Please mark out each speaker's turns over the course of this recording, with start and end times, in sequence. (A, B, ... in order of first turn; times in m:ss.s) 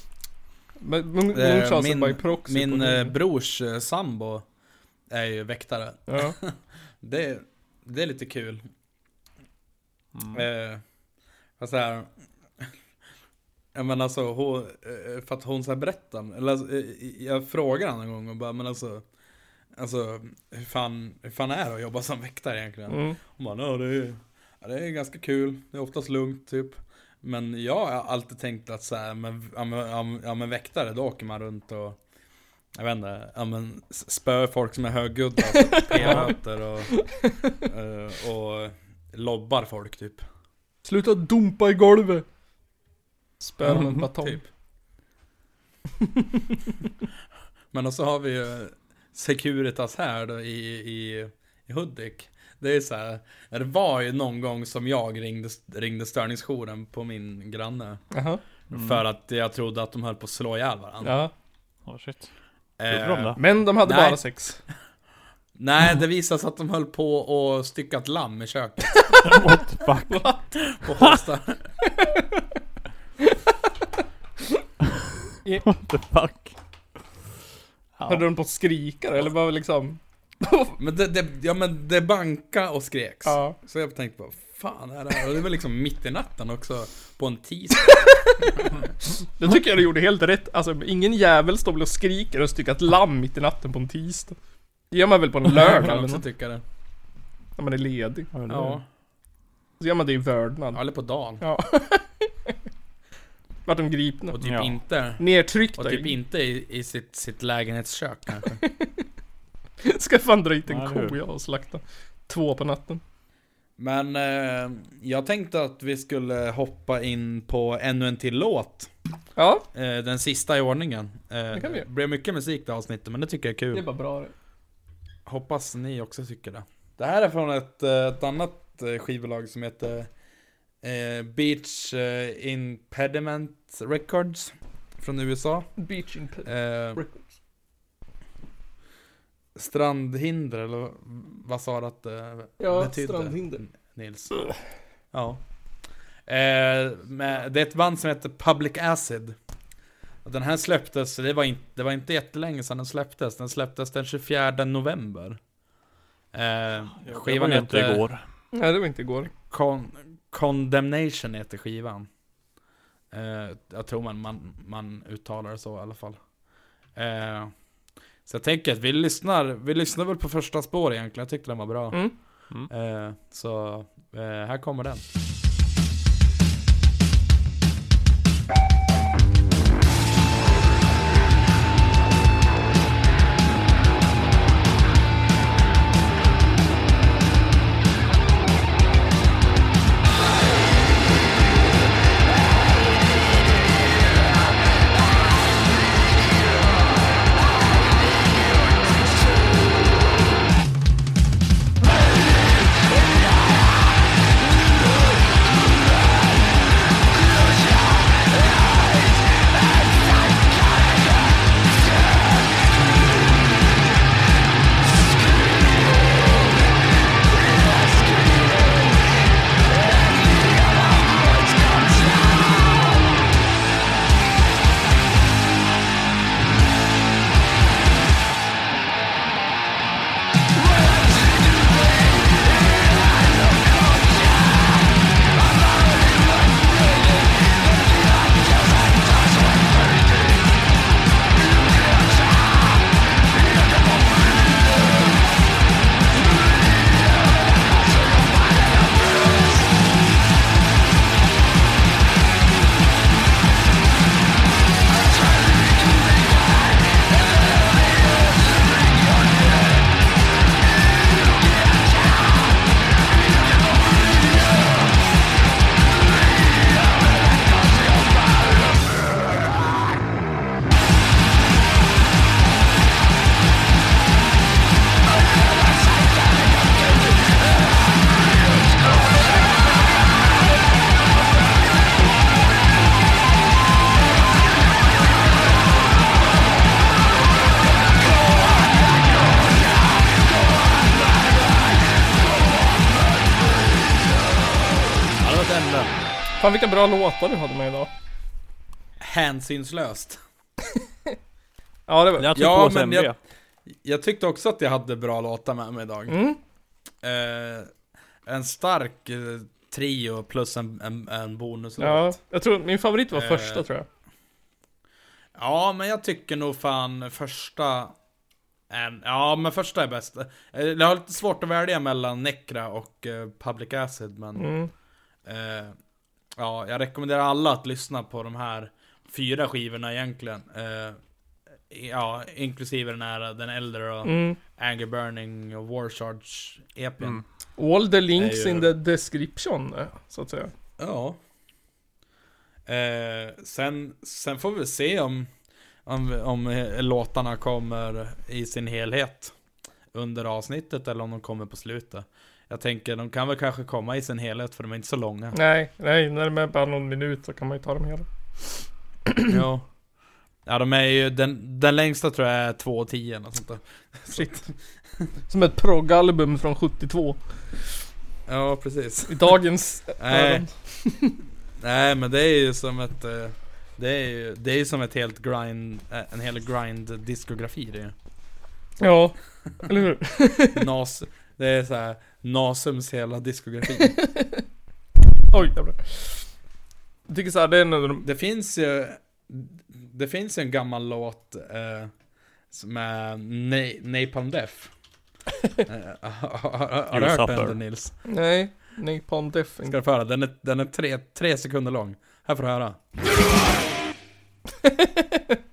0:00.8-0:03.1 A
0:01.3-0:04.4 B
0:05.1-0:08.6 B
0:06.1-0:06.4 A
0:10.1-0:10.4 C
0:10.3-0:10.8 B
0:11.6-0:12.7 B
0:13.7-0:19.1 B
0:19.7-0:32.0 B
0:22.9-0:23.2 A
0:32.7-0:40.2 B
0:35.9-0:36.4 A
0:36.9-0:37.3 A
0:40.8-0:42.2 A
0:43.4-0:44.4 A
0:43.6-0:44.5 B
0:47.7-0:58.0 B
0:58.1-0:58.4 A
0:58.7-1:01.2 B
0:58.7-0:59.0 C
1:01.0-1:01.3 A
1:01.9-1:02.3 C
1:02.8-1:04.2 B
1:02.9-1:03.4 C
1:03.4-1:04.6 A
1:05.6-1:09.3 B
1:09.2-1:10.7 C
1:10.1-1:10.4 A
1:10.7-1:11.7 B
1:11.9-1:12.4 A
1:15.7-1:17.0 C
1:18.0-1:18.2 C
1:18.1-1:20.8 A
1:20.8-1:28.0 B
1:23.2-1:23.6 A
1:29.4-1:34.4 A
1:34.9-1:36.2 A
1:35.5-1:36.6 B
1:37.6-1:38.3 A
1:38.3-1:38.8 C
1:38.5-1:38.8 B
1:39.8-1:40.8 A
1:40.7-1:41.4 B
1:41.4-1:42.6 A
1:43.7-1:44.4 A
1:44.3-1:48.6 B
1:44.4-1:44.7 C
1:45.2-1:46.1 A
1:48.6-1:49.0 A
1:49.8-1:53.0 A
1:50.7-1:51.2 C
1:53.8-1:58.9 B
1:59.4-1:59.6 A
1:59.7-2:03.8 B
2:01.5-2:01.9 A
2:03.7-2:04.3 A
2:05.3-2:10.1 B
2:10.8-2:15.9 B
2:15.8-2:17.3 A
2:16.4-2:17.0 B
2:19.6-2:25.6 B
2:22.6-2:23.6 A
2:26.2-2:29.4 B
2:30.2-2:35.4 B
2:36.3-2:38.0 B
2:37.0-2:38.2 C
2:38.5-2:39.3 A
2:39.5-2:42.1 B
2:43.1-2:46.3 B
2:46.9-2:47.7 B
2:48.3-2:55.1 B
2:51.9-2:52.2 A
4:55.0-4:56.0 B
4:56.4-4:57.9 A
4:59.0-5:00.2 B
5:01.9-5:02.3 A
5:02.2-5:03.2 C
5:02.3-5:03.1 B
5:03.7-5:06.2 B
5:06.1-5:06.4 A
5:07.0-5:12.2 B
5:11.8-5:13.9 A
5:13.1-5:13.6 B
5:15.3-5:18.0 B
5:18.7-5:24.5 B
5:24.4-5:24.7 A
5:25.3-5:25.7 B
5:26.4-5:31.0 B
5:31.7-5:37.2 B
5:34.0-5:34.4 A
5:37.6-5:40.5 A
5:38.2-5:38.7 B
5:40.8-5:41.2 B
5:42.7-5:45.3 B
5:45.8-5:49.4 B
5:49.9-5:55.4 B
5:55.3-5:59.3 A
5:59.3-5:59.8 B
6:00.4-6:04.6 B
6:05.3-6:07.7 A
6:08.3-6:09.3 B
6:09.1-6:11.2 A
6:10.0-6:10.7 B
6:11.6-6:17.9 B
6:18.8-6:20.6 A
6:20.5-6:24.0 B
6:23.8-6:24.4 A
6:25.3-6:26.4 A
6:27.1-6:28.0 A
6:28.0-6:32.0 B
6:32.5-6:34.7 B
6:35.7-6:38.0 B
6:36.9-6:37.6 C
6:38.0-6:39.7 A
6:39.6-6:43.0 B
6:44.6-6:45.2 A